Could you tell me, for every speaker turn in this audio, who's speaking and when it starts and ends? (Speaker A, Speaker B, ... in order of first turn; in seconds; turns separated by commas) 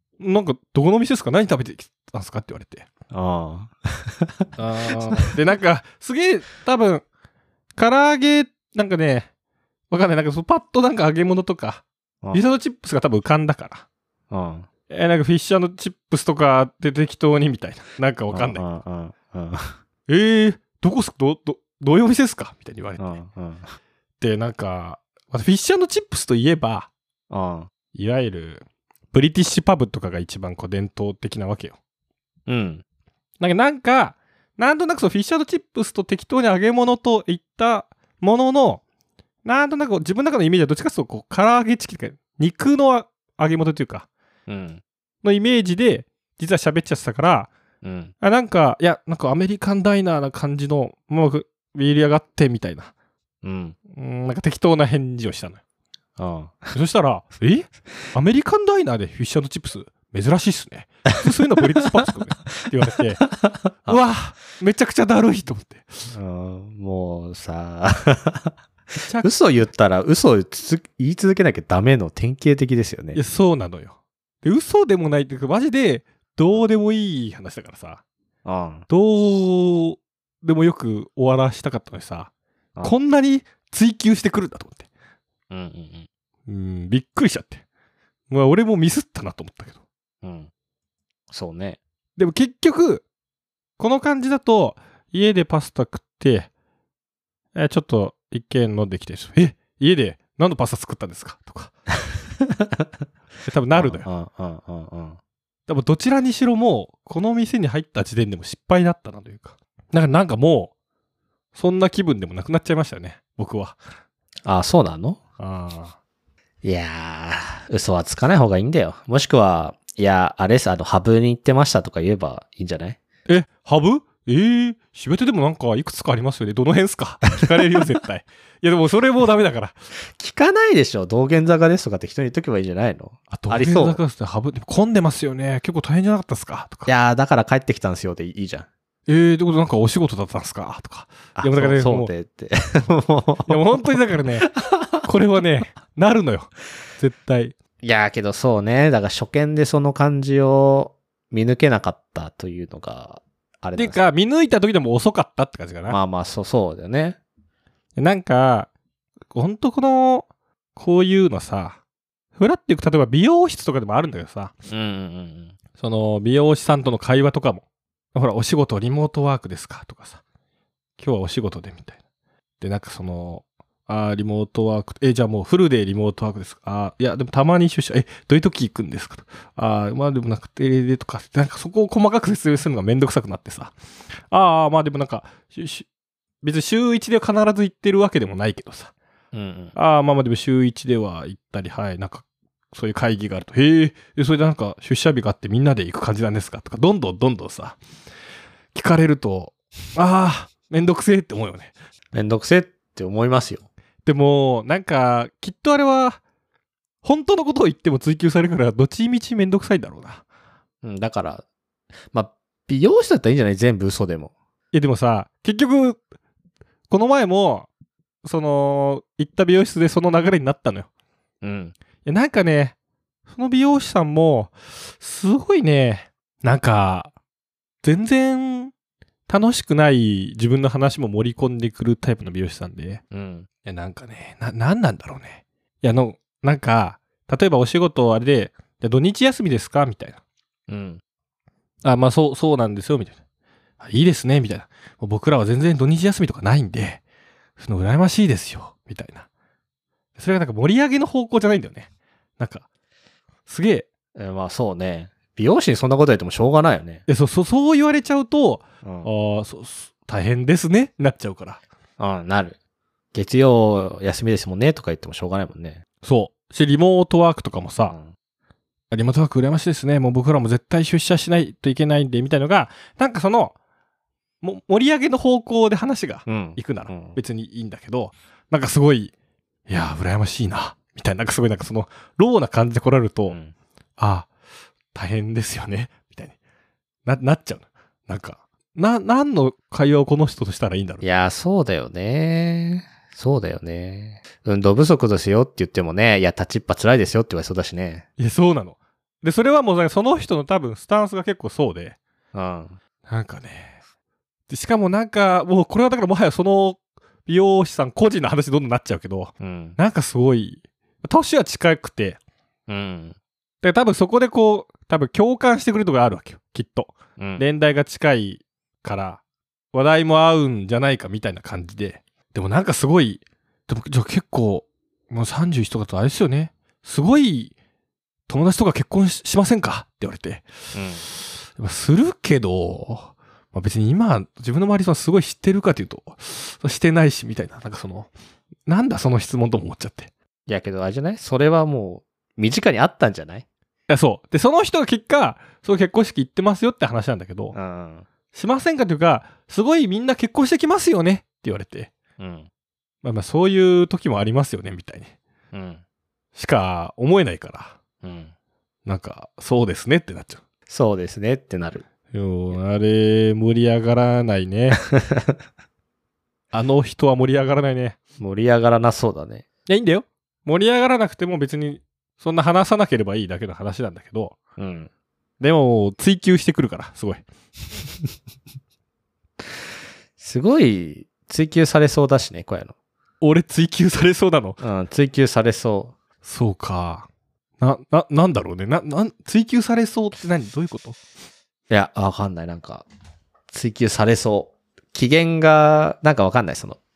Speaker A: 0.2-2.9, Speaker B: 3.1-4.5, Speaker A: 4.6-7.0, Speaker A: 7.8-9.3, Speaker A: 9.9-13.8, Speaker B: 14.3-14.7, Speaker A: 14.9-18.6, Speaker B: 18.3-19.8, Speaker A: 20.1-23.1, Speaker B: 23.0-23.7, Speaker A: 24.2-26.9, Speaker B: 27.3-27.7, Speaker A: 27.9-31.8, Speaker B: 32.5-32.8, Speaker A: 33.4-38.8, Speaker A: 39.5-44.1, Speaker B: 44.5-44.8, Speaker A: 45.2-47.5, Speaker B: 47.8-48.1, Speaker A: 48.2-52.9, Speaker B: 53.4-53.8, Speaker A: 53.9-55.6, Speaker B: 56.2-56.7, Speaker A: 56.7-63.2, Speaker B: 63.2-64.0, Speaker A: 63.9-66.0, Speaker B: 66.1-68.5, Speaker A: 69.0-69.3, Speaker B: 69.2-73.2, Speaker A: 73.2-78.0, Speaker B: 78.5-78.9, Speaker A: 78.9-82.3, Speaker A: 82.8-84.8, Speaker B: 85.5-86.1, Speaker A: 86.5-87.6, Speaker A: 88.3-89.8, Speaker B: 90.2-90.5, Speaker B: 91.3-91.8, Speaker A: 92.2-93.0, Speaker A: 93.8-96.5, Speaker A: 97.5-101.7, Speaker B: 102.4-102.8, Speaker A: 103.5-104.1, Speaker B: 103.8-105.2, Speaker A: 105.7-110.7, Speaker A: 111.5-113.8, Speaker B: 114.5-115.2, Speaker A: 115.4-116.0, Speaker B: 116.6-123.0, Speaker A: 123.3-129.8, Speaker B: 130.2-134.0, Speaker A: 133.3-136.9, Speaker B: 136.9-138.7, Speaker A: 139.1-142.1, Speaker B: 141.4-145.1, Speaker A: 143.5-144.5, Speaker A: 145.0-147.5, Speaker B: 147.8-154.0, Speaker A: 153.8-156.0, Speaker B: 155.9-157.2, Speaker A: 158.0-158.7, Speaker A: 159.3-161.8, Speaker A: 162.4-164.5, Speaker B: 164.7-165.6, Speaker A: 165.8-167.6, Speaker A: 168.1-170.2, Speaker A: 171.0-172.0, Speaker A: 172.6-183.8, Speaker A: 184.3-185.9, Speaker A: 186.4-188.9, Speaker B: 189.3-189.8, Speaker A: 189.8-197.8, Speaker A: 198.7-201.7, Speaker B: 202.1-203.7, Speaker A: 204.1-206.2, Speaker A: 207.0-210.2, Speaker B: 210.8-211.4, Speaker B: 212.1-214.3, Speaker A: 214.7-216.0, Speaker A: 216.9-217.7, Speaker A: 218.2-220.9, Speaker B: 221.4-221.8, Speaker A: 222.1-222.8, Speaker A: 223.3-227.1, Speaker A: 227.8-228.7, Speaker A: 229.3-233.0, Speaker B: 233.1-233.5, Speaker A: 233.7-240.2, Speaker B: 240.7-241.0, Speaker A: 241.8-243.2, Speaker A: 243.8-247.0, Speaker A: 247.6-249.3, Speaker A: 250.2-251.9, Speaker A: 252.4-252.7, Speaker A: 253.5-253.9, Speaker B: 254.2-257.0, Speaker A: 257.1-261.6, Speaker B: 258.8-259.1, Speaker B: 262.0-262.6, Speaker B: 263.1-265.8, Speaker A: 266.0-267.9, Speaker B: 267.9-268.1, Speaker A: 268.9-273.6, Speaker A: 274.4-279.1, Speaker B: 276.3-277.2, Speaker A: 279.7-283.4, Speaker B: 283.3-283.5, Speaker A: 284.0-284.3, Speaker A: 284.9-286.4, Speaker A: 287.1-291.0, Speaker B: 291.0-298.1, Speaker A: 298.2-302.0, Speaker B: 302.3-302.8, Speaker A: 303.1-303.8, Speaker A: 304.5-312.2, Speaker B: 309.4-309.8, Speaker B: 312.7-313.2, Speaker A: 313.6-319.2, Speaker B: 317.2-317.4, Speaker A: 319.7-327.5, Speaker A: 328.3-330.5, Speaker B: 330.7-331.0, Speaker A: 331.1-338.1, Speaker A: 338.7-340.1, Speaker B: 340.5-343.4, Speaker A: 343.9-347.6, Speaker B: 347.5-348.1, Speaker A: 348.3-351.9, Speaker B: 352.2-352.5, Speaker A: 353.0-355.1, Speaker B: 355.5-355.8, Speaker A: 356.4-357.8, Speaker B: 358.0-358.3, Speaker A: 358.9-360.4, Speaker B: 360.7-361.9, Speaker A: 362.1-364.8, Speaker B: 365.0-365.3, Speaker A: 366.5-368.0, Speaker B: 368.2-369.4, Speaker A: 369.7-374.4, Speaker B: 374.6-374.9, Speaker A: 375.4-377.2, Speaker B: 380.2-382.7, Speaker A: 383.2-384.6, Speaker B: 384.6-385.9, Speaker A: 386.2-387.1, Speaker A: 387.6-391.0, Speaker B: 391.7-392.9, Speaker B: 393.5-396.8